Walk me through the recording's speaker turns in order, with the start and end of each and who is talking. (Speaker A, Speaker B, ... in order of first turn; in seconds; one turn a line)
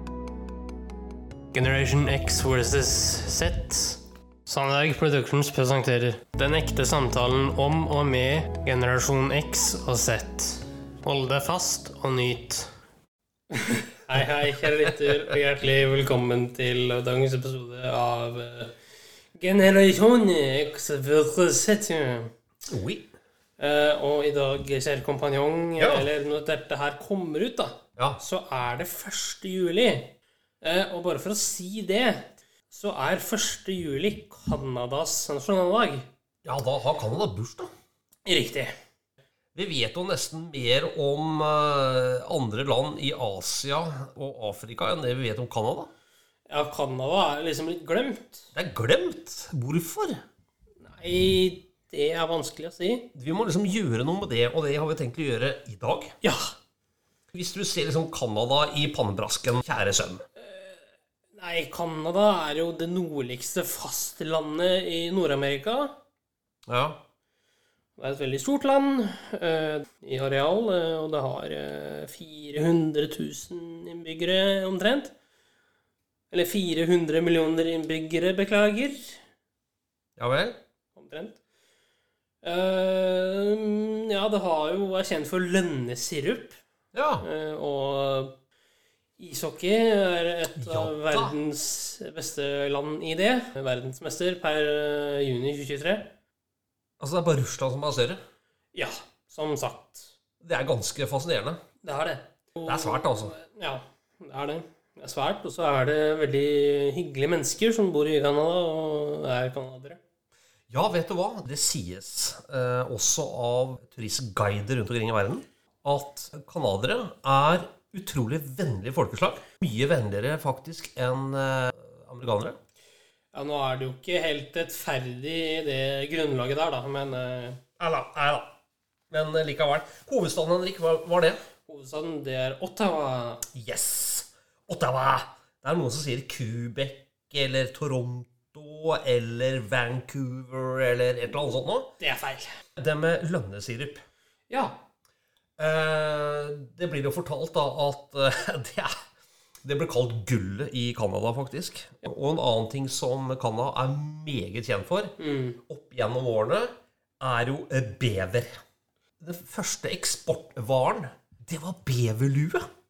Speaker A: 1.5-12.7
Speaker A: 13.5-18.7
Speaker A: 19.4-22.3
Speaker B: 22.7-23.1
Speaker A: 23.6-36.1
Speaker B: 25.8-26.1
Speaker B: 36.5-37.7
Speaker A: 38.3-38.7
Speaker B: 39.5-45.9
Speaker A: 46.5-48.5
Speaker B: 48.5-50.2
Speaker A: 50.8-53.1
Speaker B: 53.1-56.2
Speaker A: 56.2-56.5
Speaker B: 57.3-60.2
Speaker A: 60.4-60.8
Speaker A: 61.4-66.0
Speaker B: 66.7-67.0
Speaker A: 68.0-75.1
Speaker A: 76.3-79.2
Speaker B: 80.2-80.6
Speaker A: 81.0-81.4
Speaker A: 82.4-86.6
Speaker B: 86.9-87.2
Speaker A: 87.2-88.3
Speaker A: 89.2-96.1
Speaker B: 90.6-91.4
Speaker B: 97.0-98.2
Speaker A: 98.7-100.1
Speaker B: 100.4-101.6
Speaker A: 101.8-110.0
Speaker B: 102.7-103.3
Speaker B: 110.7-122.6
Speaker A: 123.3-127.6
Speaker B: 127.8-128.5
Speaker B: 129.1-131.4
Speaker A: 131.7-133.4
Speaker B: 133.5-141.9
Speaker A: 142.0-142.5
Speaker B: 142.8-144.0
Speaker A: 144.5-144.8
Speaker B: 145.6-148.9
Speaker B: 149.6-158.6
Speaker A: 155.2-155.6
Speaker B: 159.2-162.7